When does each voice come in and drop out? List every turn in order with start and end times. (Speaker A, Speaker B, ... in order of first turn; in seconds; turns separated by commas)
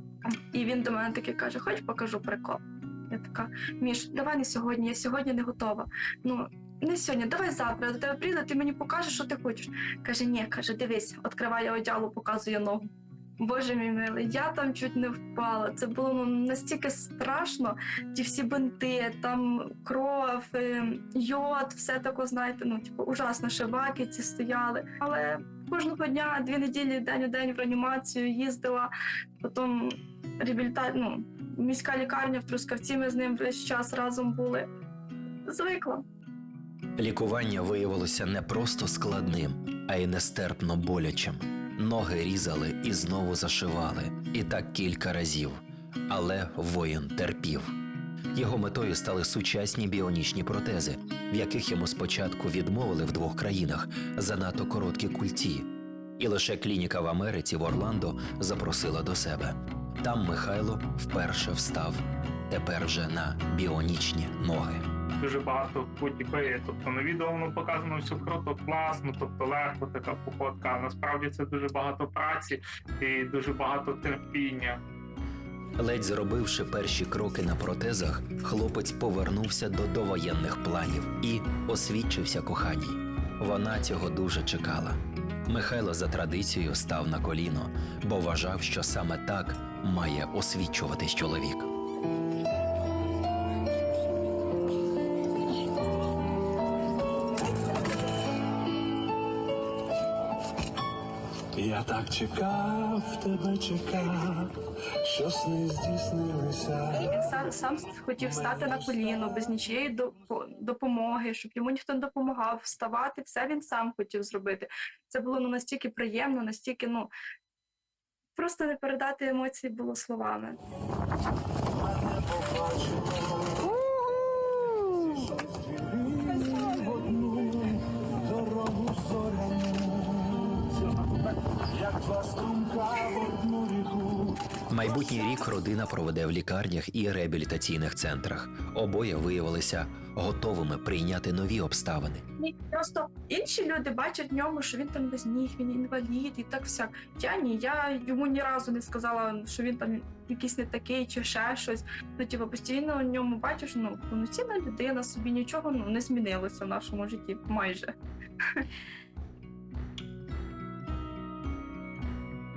Speaker A: 0.3-34.7, Speaker A: 35.5-36.0, Speaker B: 37.0-47.7, Speaker B: 48.3-64.8, Speaker C: 65.2-74.8, Speaker B: 75.8-91.7, Speaker D: 101.6-104.5, Speaker D: 105.1-106.9, Speaker A: 107.0-117.1, Speaker A: 118.4-120.6, Speaker D: 129.1-130.0, Speaker D: 132.1-133.0, Speaker B: 134.7-142.2, Speaker A: 142.4-157.9